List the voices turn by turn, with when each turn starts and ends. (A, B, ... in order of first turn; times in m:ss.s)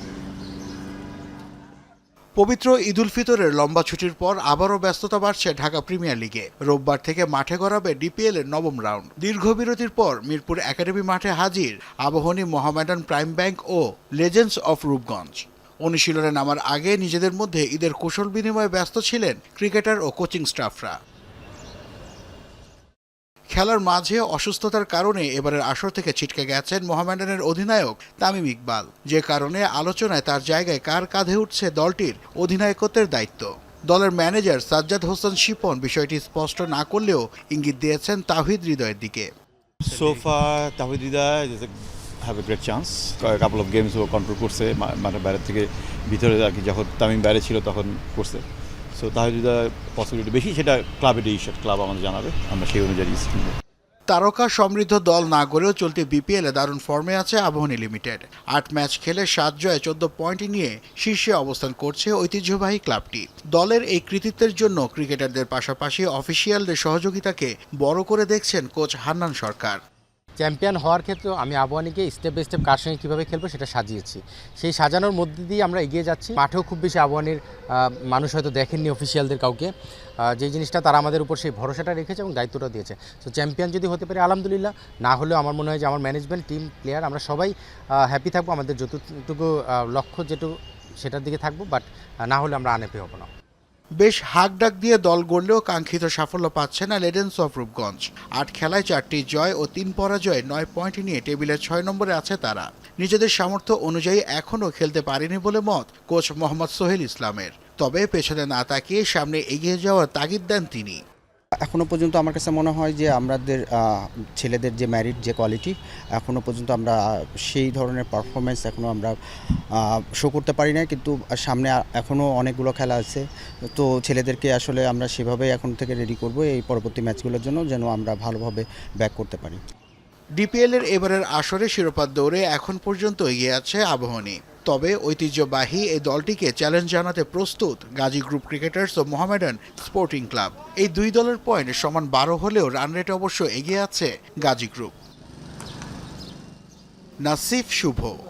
0:02.4-0:21.0 A
0:23.5-0:39.3 A
0:39.8-0:53.6 B
0:54.1-1:09.8 A
1:10.4-1:19.7 C
1:20.4-1:27.5 C
1:28.0-1:33.3 C
1:34.0-1:51.0 A
1:51.6-1:59.2 D
1:59.7-2:03.2 D
2:03.8-2:09.6 D
2:10.4-2:24.9 A
2:27.2-2:28.1 A